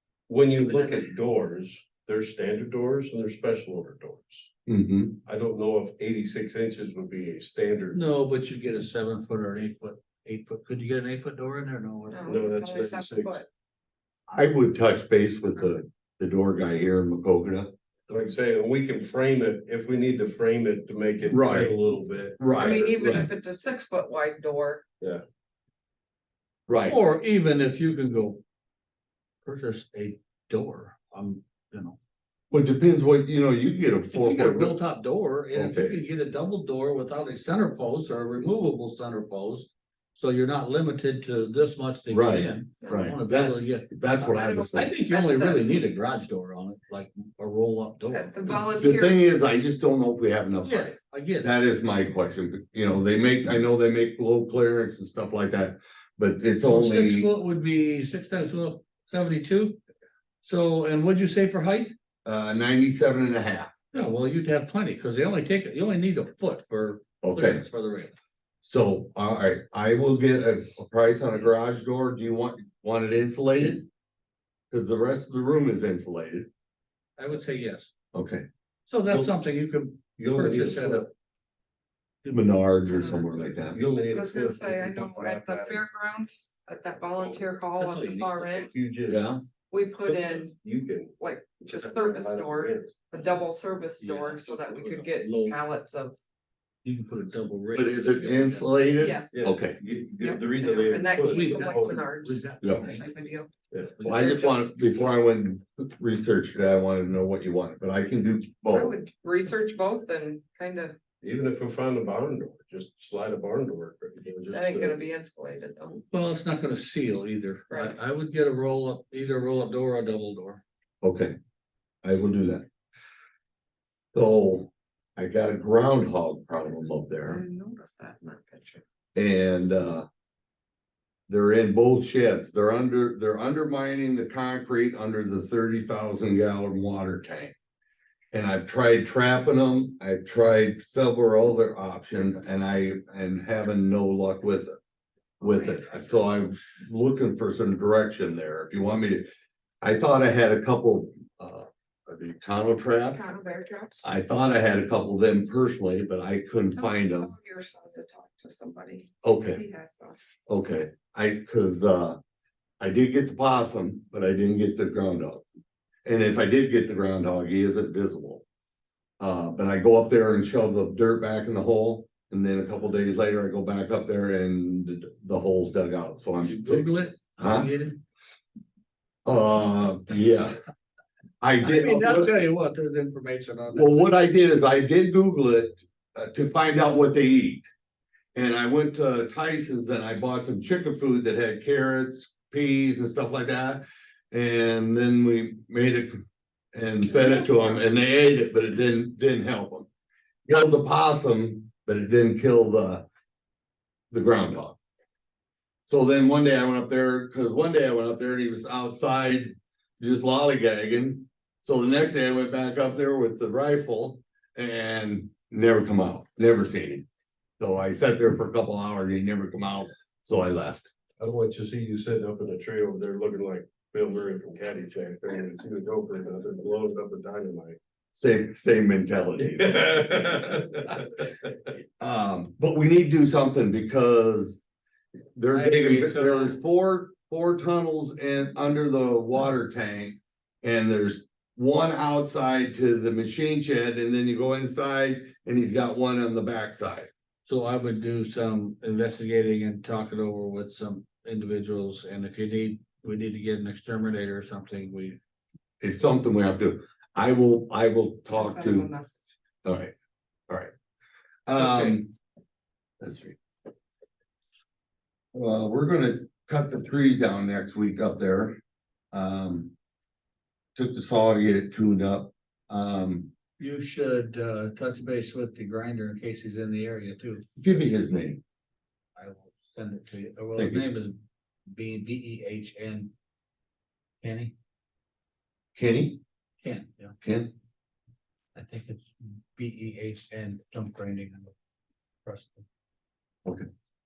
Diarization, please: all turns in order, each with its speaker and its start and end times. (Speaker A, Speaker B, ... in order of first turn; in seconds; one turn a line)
Speaker A: 0.3-4.5
Speaker B: 0.5-1.1
Speaker C: 4.7-5.2
Speaker A: 5.3-8.0
Speaker D: 7.9-12.5
Speaker B: 12.1-13.5
Speaker A: 12.3-13.4
Speaker C: 14.3-17.7
Speaker A: 18.1-23.2
Speaker C: 21.3-21.8
Speaker C: 22.4-23.3
Speaker B: 22.5-24.9
Speaker C: 26.7-27.0
Speaker D: 26.8-28.4
Speaker D: 29.4-32.0
Speaker C: 32.5-34.8
Speaker D: 34.1-48.6
Speaker C: 35.5-36.0
Speaker C: 42.1-44.9
Speaker B: 42.8-43.1
Speaker B: 44.3-45.8
Speaker B: 48.1-49.2
Speaker C: 48.5-57.3
Speaker D: 50.6-51.6
Speaker D: 56.6-59.8
Speaker D: 60.4-61.9
Speaker C: 62.2-63.7
Speaker D: 63.9-68.2
Speaker C: 67.2-67.6
Speaker C: 68.6-73.9
Speaker C: 74.7-76.5
Speaker D: 77.2-77.9
Speaker C: 78.1-78.5
Speaker D: 78.9-81.1
Speaker A: 80.2-81.1
Speaker C: 82.3-83.8
Speaker B: 82.9-83.3
Speaker A: 83.7-85.8
Speaker B: 84.1-88.7
Speaker A: 87.2-87.5
Speaker D: 87.8-88.7
Speaker A: 88.7-89.3
Speaker C: 89.1-89.4
Speaker B: 89.7-90.5
Speaker A: 90.0-93.1
Speaker B: 91.2-96.2
Speaker D: 94.0-95.6
Speaker D: 96.8-98.8
Speaker C: 97.7-99.8
Speaker B: 99.0-99.4
Speaker A: 99.3-102.0
Speaker B: 100.2-103.5
Speaker D: 101.2-103.1
Speaker C: 102.6-102.9
Speaker D: 104.0-104.4
Speaker C: 104.0-109.0
Speaker B: 104.1-104.8
Speaker B: 108.7-111.0
Speaker A: 111.2-115.0
Speaker B: 114.5-116.0
Speaker D: 116.1-120.6
Speaker B: 117.7-118.0
Speaker C: 121.0-121.3
Speaker C: 122.0-122.7
Speaker C: 124.1-127.4
Speaker B: 127.3-128.8
Speaker C: 129.2-130.1
Speaker C: 131.3-137.5
Speaker C: 138.3-144.8
Speaker C: 145.4-149.3
Speaker B: 145.4-145.9
Speaker C: 149.8-153.2
Speaker B: 153.1-154.1
Speaker C: 154.0-157.3
Speaker B: 156.8-160.2
Speaker C: 159.2-159.6
Speaker C: 160.5-162.2
Speaker C: 162.8-165.4
Speaker C: 166.1-168.4
Speaker C: 169.2-177.7
Speaker D: 176.4-178.0
Speaker C: 179.2-180.5
Speaker C: 181.4-182.4
Speaker D: 181.6-184.1
Speaker C: 183.7-187.7
Speaker C: 188.3-196.2
Speaker C: 196.7-199.9
Speaker B: 197.1-197.9
Speaker C: 200.5-203.1
Speaker C: 204.1-204.8
Speaker C: 205.9-217.1
Speaker C: 217.6-220.9
Speaker A: 221.2-227.8
Speaker C: 228.1-229.9
Speaker A: 229.6-231.0
Speaker C: 232.0-234.6
Speaker C: 235.4-247.1
Speaker D: 235.5-236.6
Speaker D: 247.4-255.2
Speaker C: 255.8-258.9
Speaker B: 258.3-259.2
Speaker C: 259.6-259.9
Speaker C: 261.5-262.1
Speaker D: 261.6-262.0
Speaker C: 263.0-263.4
Speaker C: 265.3-268.6
Speaker C: 269.1-269.7
Speaker C: 270.8-273.3
Speaker D: 273.6-277.4
Speaker C: 277.6-278.4
Speaker D: 279.2-283.1
Speaker C: 280.6-280.8
Speaker D: 284.2-284.6
Speaker C: 285.8-286.2
Speaker D: 286.6-287.1
Speaker C: 287.2-287.5
Speaker D: 288.6-291.5
Speaker D: 292.2-292.7